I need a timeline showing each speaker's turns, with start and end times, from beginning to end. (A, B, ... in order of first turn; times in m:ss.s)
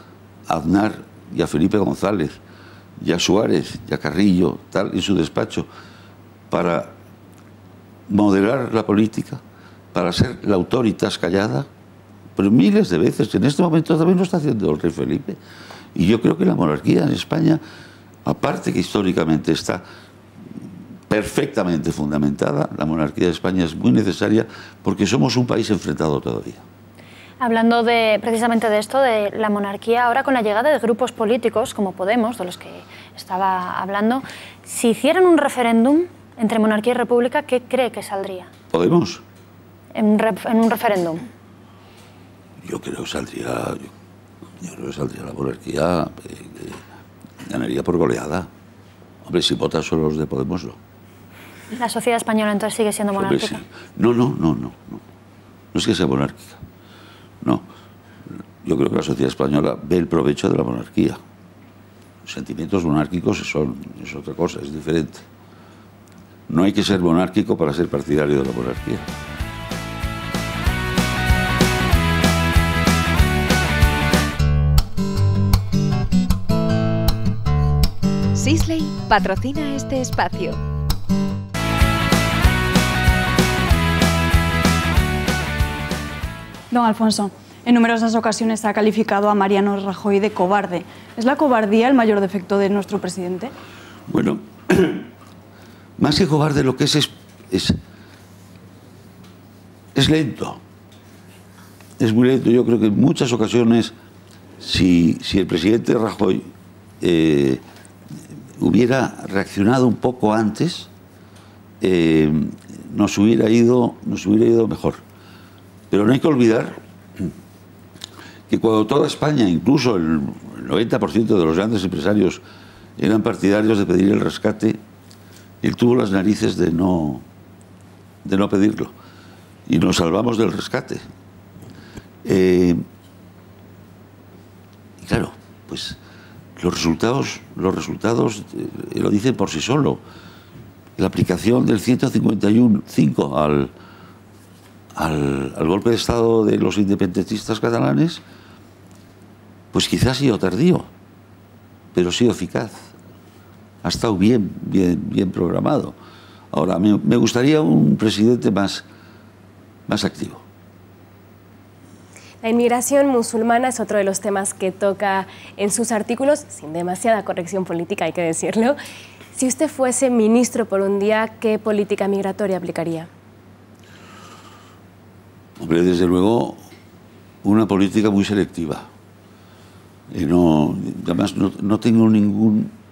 0:00.5-0:02.4 A
0:03.0-0:05.7 A
0:06.5-0:07.0 A
0:08.1-0:09.4 A
0:09.9-0:11.7 A
0:12.4-0:15.4 A
0:15.9-0:17.6 A
0:18.2-0:19.8 A
0:21.1-0:26.6 A
0:27.4-0:38.5 B
0:38.7-0:39.2 A
0:39.9-0:41.2 B
0:42.6-0:43.9 A
0:44.6-0:46.8 A
0:47.4-0:48.5 A
0:49.2-0:50.8 A
0:51.7-0:53.6 B
0:53.2-0:55.0 A
0:55.7-0:56.6 A
0:57.4-0:57.7 A
0:58.6-1:01.2 A
1:02.2-1:05.3 A
1:06.5-1:09.1 A
1:18.4-1:20.6 C
1:26.7-1:33.5 D
1:34.1-1:35.1 A
1:36.0-1:37.8 A
1:39.9-1:40.6 A
1:42.0-1:43.9 A
1:44.6-1:46.5 A
1:47.0-1:47.6 A
1:48.6-1:50.9 A
1:51.8-1:55.0 A
1:55.9-1:57.3 A
1:58.5-2:02.4 A
2:03.0-2:04.8 A
2:05.6-2:07.2 A
2:08.2-2:08.9 A
2:09.7-2:11.0 A
2:12.2-2:12.8 A
2:15.0-2:16.0 A
2:16.6-2:20.0 A
2:21.0-2:23.7 A
2:25.0-2:28.2 A
2:29.7-2:30.9 A
2:31.9-2:32.9 A
2:33.8-2:36.0 A
2:36.5-2:38.8 A
2:39.9-2:40.4 A
2:42.4-2:48.8 E
2:49.4-2:53.1 E
2:55.6-2:56.6 A
2:57.4-2:58.9 A
3:00.1-3:02.7 A